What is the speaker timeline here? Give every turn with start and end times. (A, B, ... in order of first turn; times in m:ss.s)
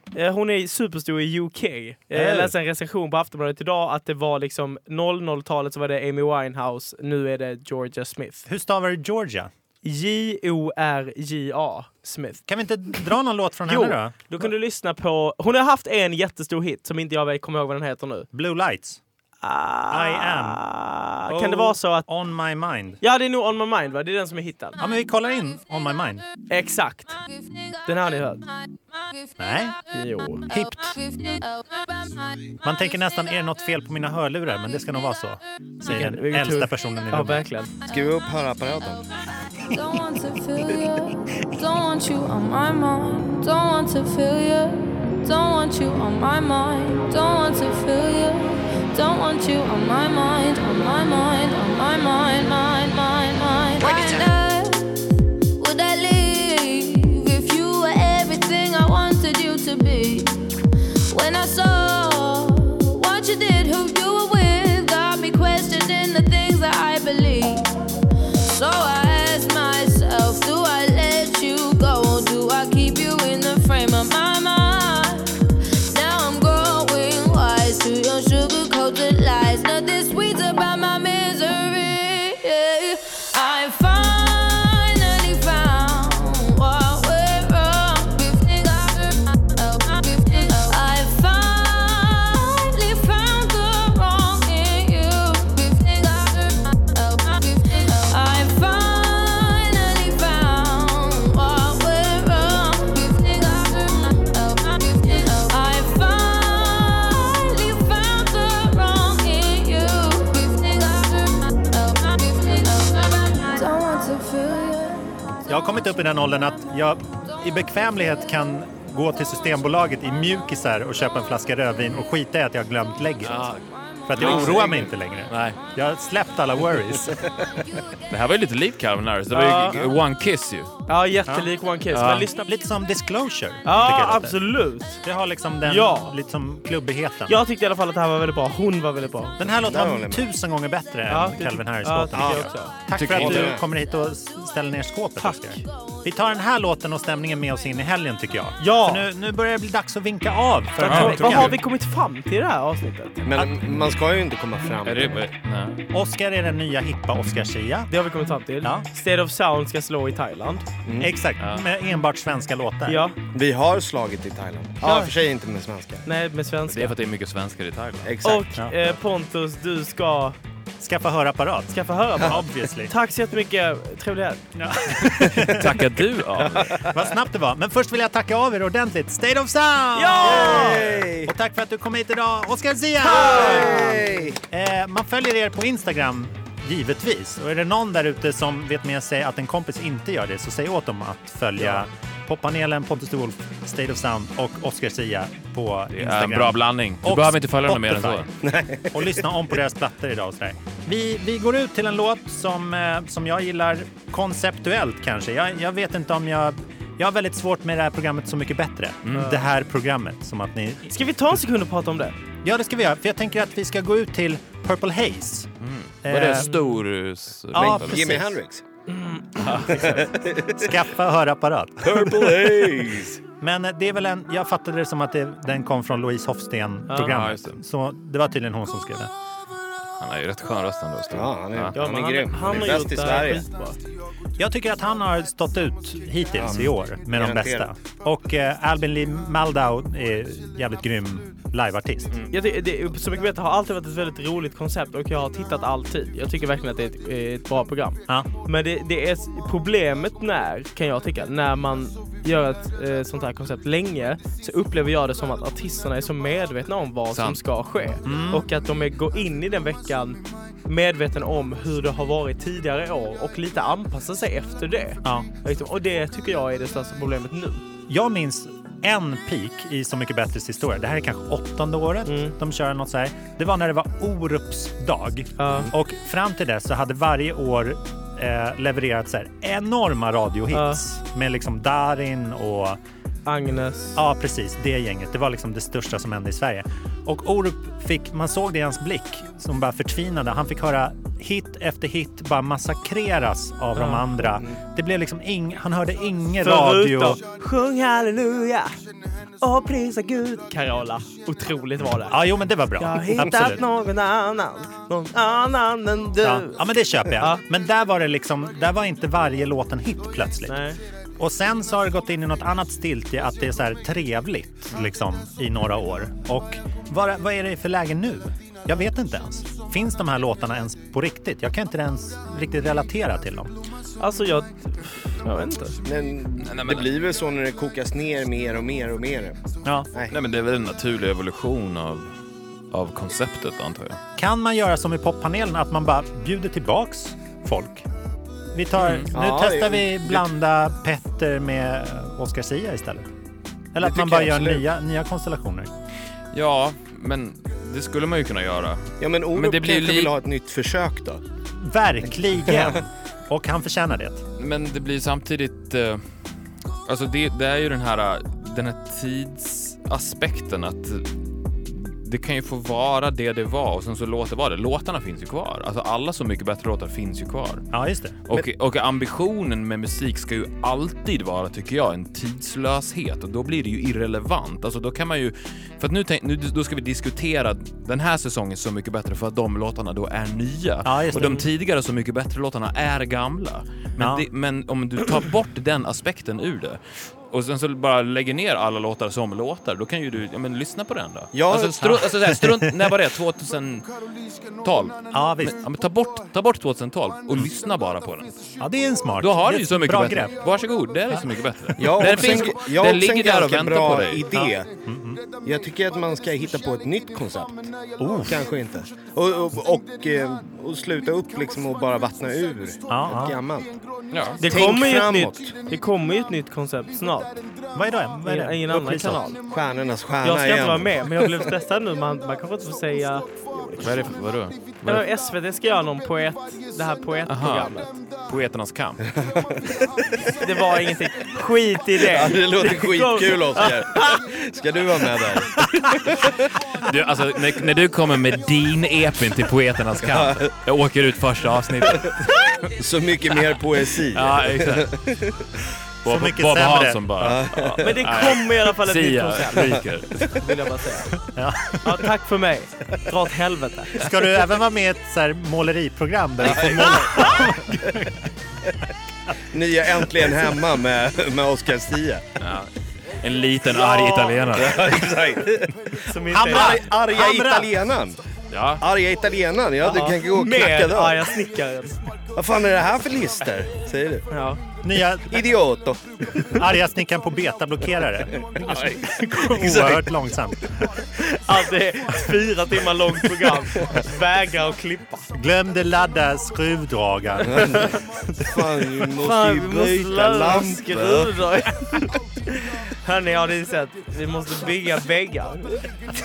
0:00.1-0:08.4 A
0:02.1-0:02.5 B
0:08.5-0:09.5 B
0:09.8-0:12.4 A
0:12.5-0:14.5 B
0:13.6-0:18.3 A
0:18.3-0:19.0 B
0:19.4-0:22.1 A
0:19.9-0:20.6 B
0:21.3-0:23.0 B
0:23.0-0:24.8 A
0:24.8-0:26.2 B
0:26.5-0:27.2 A
0:27.2-0:29.7 C
0:27.8-0:28.4 A
0:29.4-0:29.8 B
0:29.9-0:30.4 A
0:30.5-0:31.0 B
0:30.5-0:32.6 C
0:32.6-0:37.4 B
0:35.8-0:37.7 A
0:37.9-0:39.0 D
0:39.7-0:54.9 C
0:39.7-0:40.0 B
0:55.6-1:00.4 C
1:01.1-1:07.7 C
1:08.5-1:55.1 C
1:55.5-2:03.5 B
2:03.2-2:03.6 E
2:04.0-2:07.2 B
2:04.2-2:04.6 E
2:04.2-2:04.8 D
2:05.3-2:05.6 E
2:08.1-2:10.7 E
2:09.3-2:09.8 A
2:10.9-2:12.5 A
2:11.3-2:14.4 B
2:11.9-2:12.2 E
2:13.6-2:15.0 A
2:15.0-2:17.4 B
2:15.6-2:16.1 A
2:17.3-2:19.4 A
2:19.4-2:31.6 B
2:19.6-2:20.2 D
2:21.1-2:22.8 A
2:22.1-2:22.4 D
2:22.9-2:23.6 E
2:23.1-2:23.6 D
2:25.2-2:25.6 A
2:28.6-2:29.1 A
2:30.8-2:33.2 A
2:30.8-2:31.5 E
2:33.2-2:35.2 D
2:34.8-2:35.8 E
2:35.9-2:37.9 B
2:37.9-2:40.7 A
2:40.8-2:41.1 D
2:41.0-2:43.0 B
2:41.4-2:41.6 E
2:42.9-2:43.2 A
2:43.3-2:46.0 D
2:44.8-2:45.1 B
2:46.0-2:46.9 A
2:46.7-2:48.1 E
2:48.0-2:48.6 D
2:48.2-2:50.4 A
2:50.8-2:52.9 B
2:51.7-2:54.4 A
2:54.5-2:55.8 B
2:55.2-2:55.7 D
2:55.4-2:56.8 E
2:56.4-2:57.0 D
2:56.8-3:18.3 B
2:59.9-3:00.8 A
3:00.2-3:01.3 D
3:03.0-3:04.4 D
3:03.2-3:03.7 A
3:15.9-3:18.3 E
3:18.4-3:19.2 D
3:18.9-3:31.0 B
3:29.0-3:29.4 E
3:29.2-3:29.4 A
3:30.9-3:32.2 A
3:32.4-3:35.5 B
3:35.6-3:38.3 E
3:36.0-3:36.5 B
3:37.5-3:38.3 B
3:37.5-3:38.6 D
3:38.9-3:39.9 A
3:39.4-3:40.0 E
3:39.7-3:40.7 D
3:40.6-3:42.7 B
3:41.8-3:43.2 D
3:43.4-3:49.1 B
3:46.9-3:47.6 E
3:50.0-3:51.8 E
3:51.1-3:53.4 D
3:51.7-3:53.8 A
3:54.4-4:02.2 B
3:56.4-3:57.7 D
4:02.3-4:27.6 A
4:17.1-4:17.4 E
4:18.0-4:18.4 B
4:25.0-4:25.3 B
4:27.9-4:42.8 B
4:32.0-4:32.3 A
4:35.4-4:35.7 A
4:40.5-4:40.8 A
4:43.2-4:44.0 A
4:44.0-4:57.2 B
4:53.7-4:54.2 A
4:56.4-4:58.7 A
4:59.4-5:02.2 A
5:02.0-5:03.6 B
5:02.8-5:07.4 A
5:06.2-5:10.6 B
5:10.4-5:10.8 A
5:11.2-5:23.5 B
5:24.0-5:25.8 A
5:25.8-5:29.4 D
5:26.4-5:26.9 E
5:30.1-5:32.1 E
5:32.7-5:34.0 E
5:34.2-5:37.8 B
5:38.5-5:43.1 B
5:38.8-5:39.1 E
5:39.1-5:40.2 D
5:43.7-5:45.7 B
5:43.8-5:44.6 D
5:46.3-5:50.1 E
5:49.0-5:51.2 D
5:51.6-5:54.2 B
5:52.4-5:52.8 D
5:54.4-5:56.0 E
5:56.8-6:01.1 E
6:01.6-6:07.6 E
6:07.7-6:08.2 B
6:08.3-6:26.8 E
6:20.8-6:21.5 B
6:24.0-6:24.2 B
6:27.3-6:33.9 E
6:31.3-6:32.0 D
6:31.8-6:32.7 B
6:34.6-6:38.3 E
6:35.1-6:35.6 B
6:38.6-6:40.4 B
6:39.2-6:44.4 E
6:41.1-6:42.4 B
6:41.8-6:44.7 D
6:44.3-6:45.2 B
6:45.4-6:53.8 D
6:48.0-6:48.4 B
6:52.9-6:53.4 B
6:54.1-6:54.4 E
6:54.4-6:57.4 A
6:54.4-6:55.5 D
6:57.7-6:59.2 B
6:58.2-6:59.4 A
6:59.5-7:01.3 D
7:00.2-7:04.0 A
7:03.8-7:05.0 E
7:04.8-7:07.9 A
7:07.2-7:09.0 E
7:09.0-7:10.4 D
7:10.3-7:14.2 A
7:12.0-7:16.6 D
7:16.8-7:22.3 E
7:20.0-7:20.5 D
7:21.8-7:22.1 D
7:22.8-7:25.5 D
7:23.3-7:25.0 E
7:26.0-7:30.3 E
7:26.0-7:27.3 B
7:27.2-7:28.0 D
7:27.8-7:31.1 A
7:31.3-7:31.9 B
7:31.8-7:34.0 A
7:34.0-7:38.2 B
7:36.4-7:38.0 D
7:39.5-7:42.3 D
7:42.4-7:42.7 E
7:43.2-7:45.0 E
7:43.9-7:44.4 B
7:44.0-7:44.3 A
7:44.5-7:48.2 D
7:46.0-7:46.8 A
7:46.2-7:47.7 B
7:48.5-7:48.8 E
7:48.8-7:51.4 D
7:49.8-7:52.0 A
7:52.3-7:54.2 D
7:54.3-7:54.6 A
7:54.8-7:55.5 B
7:55.3-7:56.5 D
7:56.5-8:01.3 B
7:58.4-8:00.0 D
8:01.2-8:05.2 A
8:05.3-8:08.0 B
8:07.5-8:07.9 D
8:08.4-8:11.4 D
8:09.2-8:15.8 A